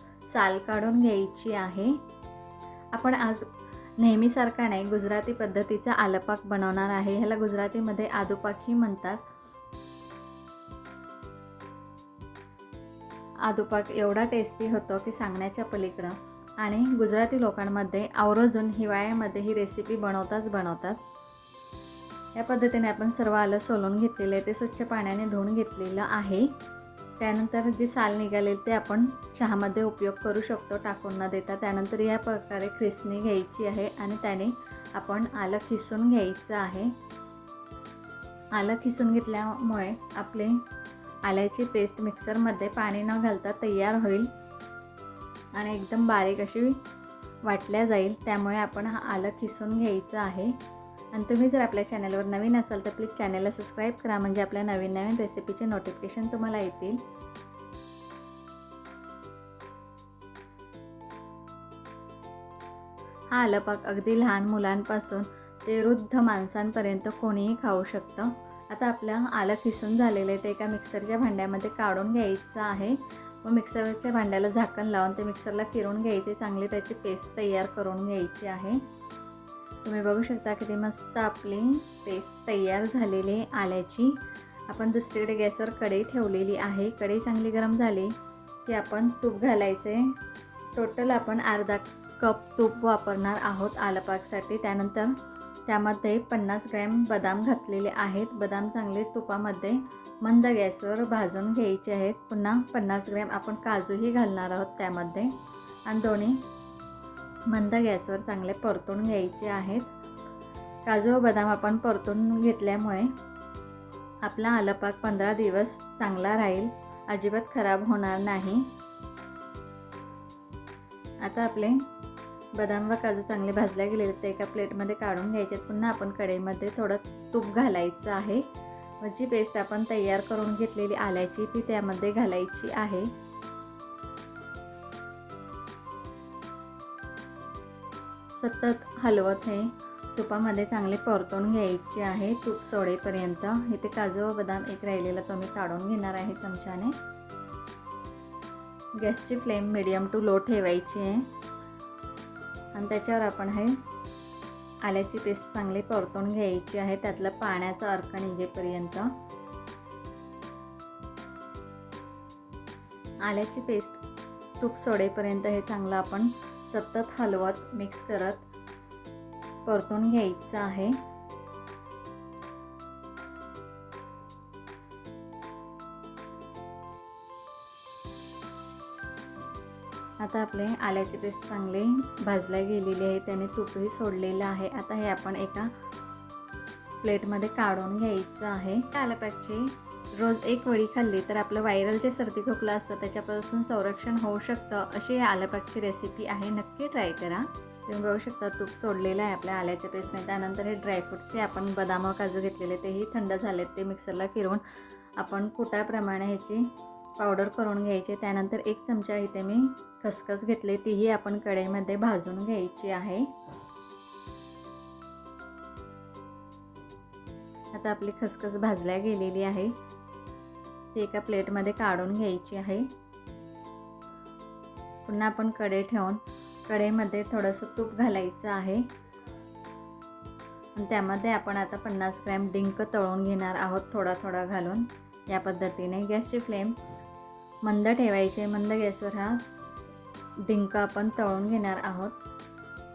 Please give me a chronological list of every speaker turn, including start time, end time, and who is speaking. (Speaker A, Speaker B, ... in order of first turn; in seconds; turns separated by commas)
Speaker A: 0.3-1.9, Speaker A: 2.9-3.5, Speaker A: 4.0-9.2, Speaker A: 13.5-21.0, Speaker A: 22.4-26.5, Speaker A: 27.2-36.9, Speaker A: 38.5-40.6, Speaker A: 41.2-44.3, Speaker A: 45.6-46.8, Speaker A: 47.4-50.5, Speaker A: 51.1-57.0, Speaker A: 63.3-78.8, Speaker A: 79.8-84.2, Speaker A: 84.7-88.1, Speaker A: 88.7-90.1, Speaker A: 90.8-95.1, Speaker A: 95.7-105.3, Speaker A: 105.9-106.4, Speaker A: 107.5-109.9, Speaker A: 110.9-113.1, Speaker A: 114.2-118.7, Speaker A: 121.2-121.8, Speaker A: 122.5-128.4, Speaker A: 129.0-133.1, Speaker A: 138.3-146.9, Speaker A: 149.0-151.3, Speaker A: 152.8-153.8, Speaker A: 154.8-159.1, Speaker A: 163.2-164.0, Speaker A: 164.6-168.4, Speaker A: 169.7-171.0, Speaker A: 180.2-185.7, Speaker A: 187.0-204.6, Speaker A: 205.2-213.3, Speaker A: 217.8-219.7, Speaker A: 220.9-222.9, Speaker A: 225.1-228.8, Speaker A: 230.8-236.8, Speaker A: 237.6-239.4, Speaker A: 240.5-242.2